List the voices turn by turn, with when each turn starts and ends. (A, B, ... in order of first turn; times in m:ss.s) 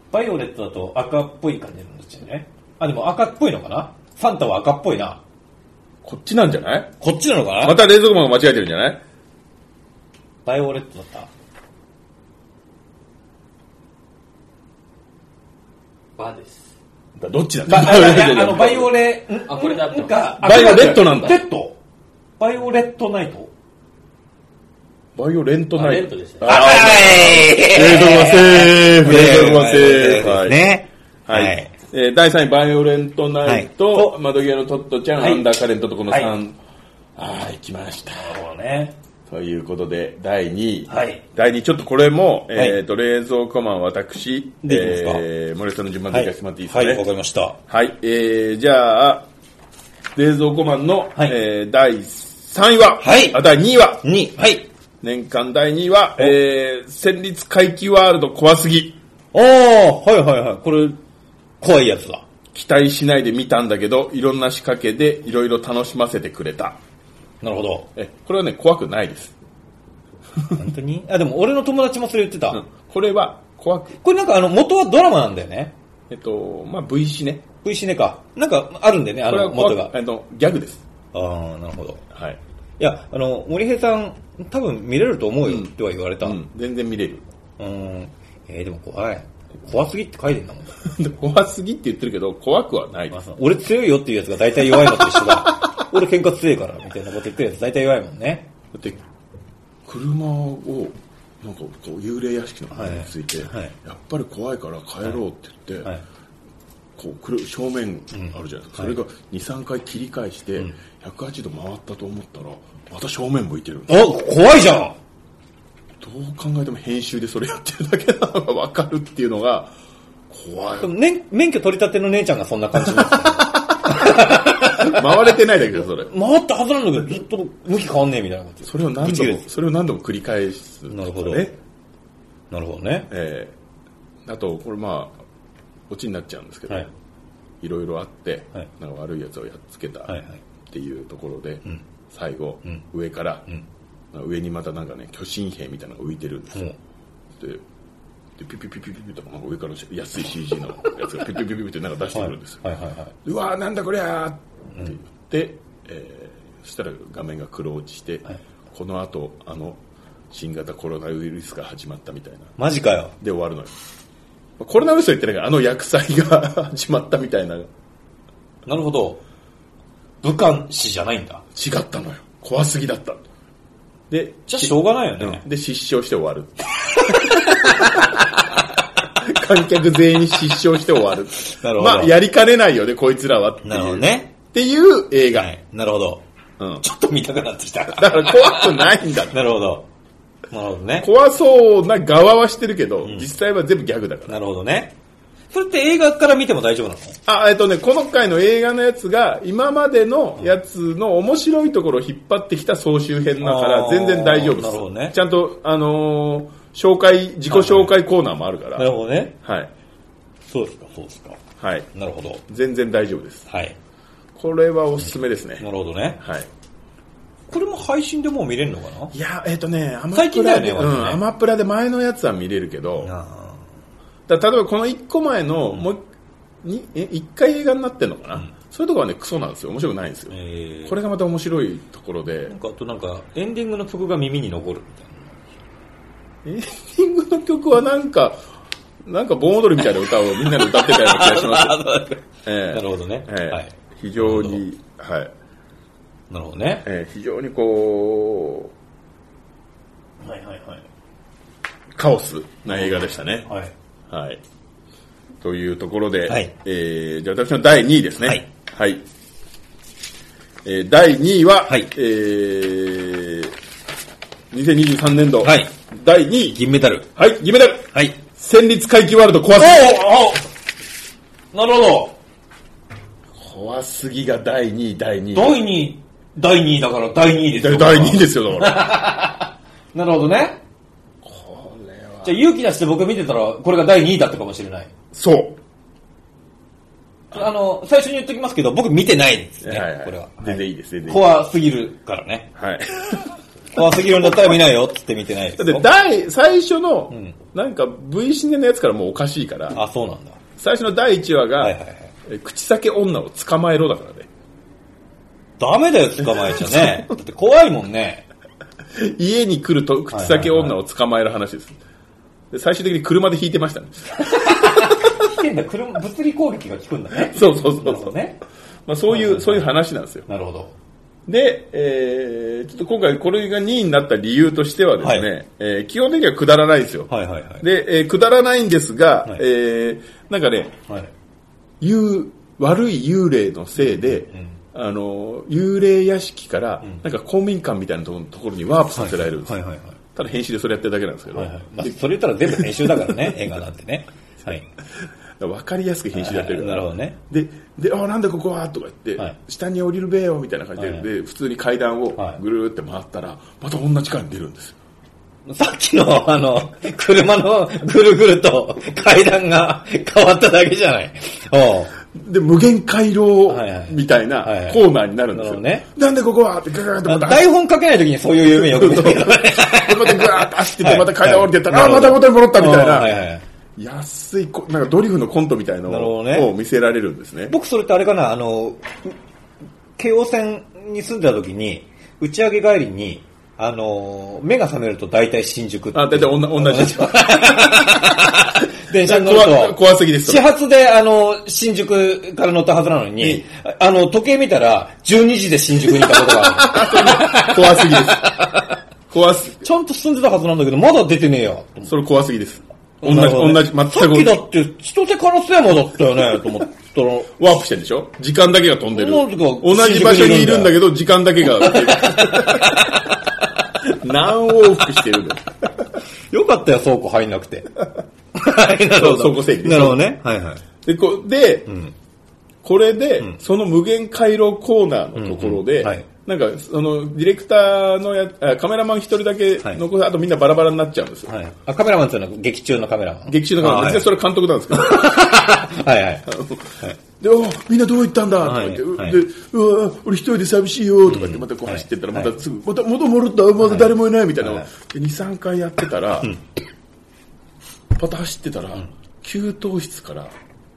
0:00.1-0:05.2 A
0:06.0-0:06.9 B
0:07.0-0:07.8 A
0:07.6-0:09.0 B
0:10.4-0:11.3 A
0:16.2-0:16.7 C
0:17.2-0:18.9 B
0:17.7-0:21.8 A
0:18.2-0:18.7 C
0:19.4-0:21.4 C
0:20.4-0:21.4 B
0:22.4-0:23.5 A
0:25.2-0:30.6 B
0:25.7-0:27.1 C
0:26.4-0:31.7 A
0:31.3-0:36.6 B
0:33.4-0:34.2 A
0:35.2-0:35.4 A
0:36.1-0:36.3 A
0:37.2-0:38.4 B
0:38.1-0:38.9 A
0:39.3-0:47.0 B
0:40.9-0:41.2 A
0:42.5-0:42.8 A
0:44.6-0:45.2 A
0:46.1-0:47.6 A
0:47.7-0:49.3 B
0:50.2-0:54.0 B
0:53.0-0:53.4 A
0:54.0-0:54.7 A
0:55.0-0:59.0 B
0:59.3-1:01.0 A
1:01.6-1:02.2 A
1:02.5-1:06.8 B
1:07.4-1:07.9 A
1:08.0-1:09.4 B
1:10.6-1:12.6 A
1:12.5-1:14.0 B
1:14.0-1:15.8 A
1:16.1-1:17.5 B
1:17.6-1:19.9 A
1:19.3-1:20.8 B
1:21.1-1:22.0 A
1:22.1-1:22.4 B
1:22.8-1:26.4 A
1:26.2-1:27.2 B
1:27.6-1:30.8 A
1:30.8-1:33.2 B
1:33.1-1:38.5 A
1:34.9-1:35.8 B
1:38.7-1:39.0 B
1:39.9-1:45.9 B
1:42.7-1:43.7 A
1:47.0-1:54.0 B
1:48.1-1:49.0 A
1:53.9-1:55.0 A
1:56.0-1:59.7 B
2:00.3-2:00.9 B
2:00.8-2:05.4 A
2:03.6-2:06.1 B
2:06.1-2:09.4 A
2:08.6-2:11.6 B
2:10.9-2:11.5 A
2:12.5-2:13.1 A
2:13.1-2:13.6 B
2:14.3-2:15.2 B
2:15.9-2:16.9 B
2:17.6-2:20.2 B
2:20.1-2:20.4 A
2:20.7-2:23.4 B
2:24.1-2:26.7 B
2:27.4-2:27.6 B
2:28.4-2:32.6 B
2:32.1-2:33.1 A
2:33.2-2:39.8 B
2:40.3-2:42.6 B
2:42.6-2:43.2 A
2:43.2-2:43.7 B
2:44.6-2:47.7 B
2:48.7-2:49.2 A
2:50.2-2:51.4 A
2:51.6-2:53.2 B
2:54.1-2:58.3 B
2:54.5-2:55.4 A
2:57.1-2:58.3 A
2:59.1-3:05.5 B
3:01.5-3:02.1 A
3:03.6-3:04.3 A
3:05.3-3:06.2 A
3:06.8-3:09.9 A
3:07.9-3:09.4 B
3:10.5-3:11.1 A
3:11.0-3:14.4 B
3:13.0-3:13.3 A
3:14.3-3:15.0 A
3:15.5-3:17.2 A
3:17.3-3:29.7 B
3:23.4-3:25.2 A
3:27.5-3:27.9 A
3:28.8-3:29.4 A
3:30.5-3:31.4 A
3:31.6-3:31.9 B
3:31.9-3:32.4 A
3:32.5-3:33.5 B
3:33.5-3:33.8 A
3:34.4-3:35.6 B
3:35.0-3:36.2 A
3:36.2-3:36.5 B
3:37.5-3:39.1 A
3:39.1-3:43.1 B
3:40.1-3:41.2 A
3:43.0-3:43.6 A
3:44.3-3:46.0 B
3:46.6-3:50.3 B
3:50.3-3:51.0 A
3:50.9-3:52.6 B
3:52.5-3:55.4 A
3:56.5-3:58.4 B
3:59.1-4:01.8 B
3:59.8-4:04.6 A
4:02.4-4:05.3 B
4:06.3-4:06.8 A
4:06.8-4:08.7 B
4:10.2-4:10.8 A
4:12.0-4:13.5 B
4:12.7-4:13.7 A
4:14.1-4:14.4 B
4:15.4-4:19.0 B
4:16.3-4:16.5 A
4:20.6-4:23.5 B
4:24.5-4:26.6 B
4:25.4-4:25.7 A
4:26.5-4:27.1 A
4:27.2-4:30.0 B
4:27.9-4:28.2 A
4:29.6-4:30.5 A
4:31.5-4:32.2 A
4:33.4-4:35.6 B
4:35.3-4:40.6 A
4:37.6-4:38.9 B
4:41.2-4:42.4 B
4:42.2-4:44.9 A
4:45.1-4:45.6 B
4:47.3-4:52.5 A
4:49.6-4:51.3 B
4:52.6-4:53.3 B
4:53.7-4:55.9 A
4:55.6-4:59.8 B
4:57.1-4:57.4 A
4:59.7-5:00.4 A
5:00.6-5:04.3 B
5:01.6-5:02.1 A
5:05.6-5:08.3 A
5:06.3-5:07.1 B
5:09.0-5:11.8 B
5:10.1-5:10.8 A
5:12.5-5:15.0 B
5:14.2-5:18.4 A
5:17.2-5:18.2 B
5:18.9-5:20.3 B
5:19.1-5:19.7 A
5:20.3-5:20.7 A
5:21.3-5:30.8 B
5:25.0-5:25.3 A
5:27.1-5:27.6 A
5:31.8-5:39.6 B
5:33.8-5:34.6 A
5:38.9-5:40.0 A
5:40.1-5:43.4 B
5:41.3-5:44.7 A
5:45.4-5:54.8 B
5:46.1-5:47.2 A
5:50.8-5:51.1 A
5:55.5-6:01.9 A
6:02.1-6:07.5 B
6:03.5-6:05.9 A
6:07.0-6:13.4 A
6:08.5-6:13.1 B
6:13.8-6:17.5 B
6:15.9-6:16.5 A
6:17.5-6:19.2 A
6:20.0-6:38.7 A
6:25.9-6:30.5 B
6:36.1-6:38.4 B
6:39.1-6:39.7 B
6:39.6-6:41.9 A
6:41.9-6:44.4 B
6:43.0-6:47.3 A
6:47.4-6:53.0 B
6:48.9-6:50.8 A
6:51.5-6:53.2 A
6:53.8-6:55.5 B
6:56.3-6:57.7 A
6:58.3-7:00.6 A
6:59.0-7:00.0 B
7:00.8-7:01.7 B
7:01.7-7:01.9 A
7:02.6-7:11.3 B
7:05.2-7:06.1 A
7:11.3-7:14.1 A
7:13.3-7:15.2 B
7:14.7-7:16.3 A
7:16.3-7:26.3 B
7:18.4-7:19.2 A
7:21.1-7:22.3 A
7:23.6-7:24.7 A
7:28.0-7:30.3 B